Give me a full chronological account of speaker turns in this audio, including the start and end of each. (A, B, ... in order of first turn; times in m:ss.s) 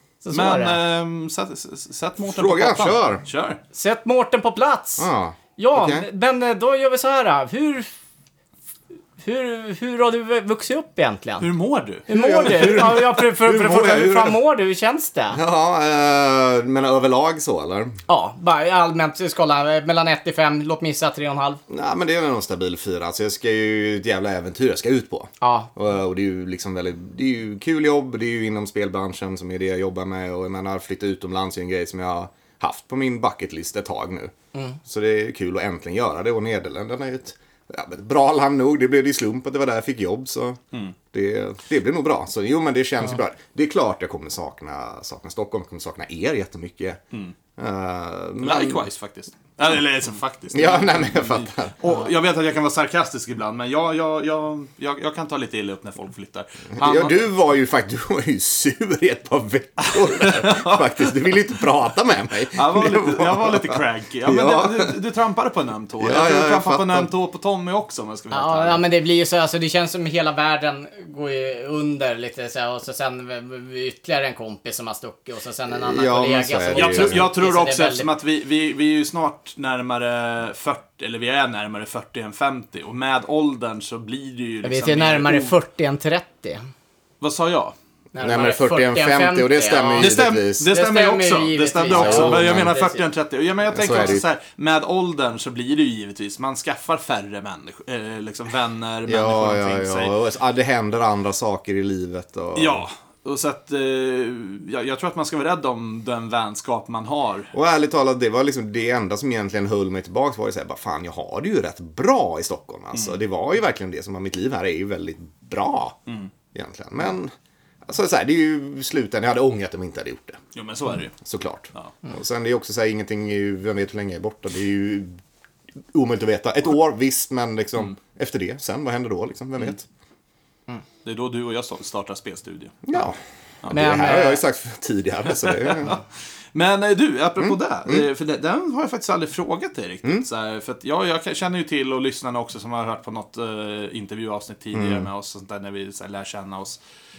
0:00.2-0:00.8 A
0:00.3-0:03.6 B
0:02.3-0:03.2 C
0:03.7-0:07.9 A
0:05.0-0:06.0 C
0:09.2-0:11.5 A
0:11.4-0:12.1 B
0:12.1-0:15.4 A
0:12.1-0:14.4 C
0:15.3-0:18.0 C
0:18.1-0:21.6 A
0:21.7-0:34.3 C
0:25.4-0:25.7 A
0:34.8-0:40.6 C
0:41.1-0:47.0 C
0:47.6-0:48.9 C
0:48.4-0:57.2 B
0:50.5-0:51.7 C
0:56.8-1:05.0 C
0:59.9-1:01.4 B
1:02.5-1:08.8 B
1:06.0-1:07.1 C
1:08.3-1:18.1 A
1:15.7-1:17.3 C
1:16.7-1:25.6 B
1:24.6-1:26.7 A
1:27.2-1:27.8 B
1:28.2-1:33.0 A
1:28.2-1:30.7 C
1:30.0-1:40.1 B
1:31.9-1:32.7 C
1:33.7-1:34.2 C
1:39.1-1:42.8 C
1:42.6-1:47.5 B
1:47.5-1:56.0 C
1:52.9-1:53.2 B
1:56.5-1:57.3 C
1:57.8-2:00.4 C
2:00.5-2:01.2 B
2:01.2-2:05.2 C
2:05.9-2:09.9 C
2:11.0-2:12.9 B
2:12.8-2:13.2 C
2:13.7-2:16.0 C
2:13.7-2:14.4 A
2:15.3-2:26.8 B
2:17.4-2:18.0 C
2:24.7-2:25.1 C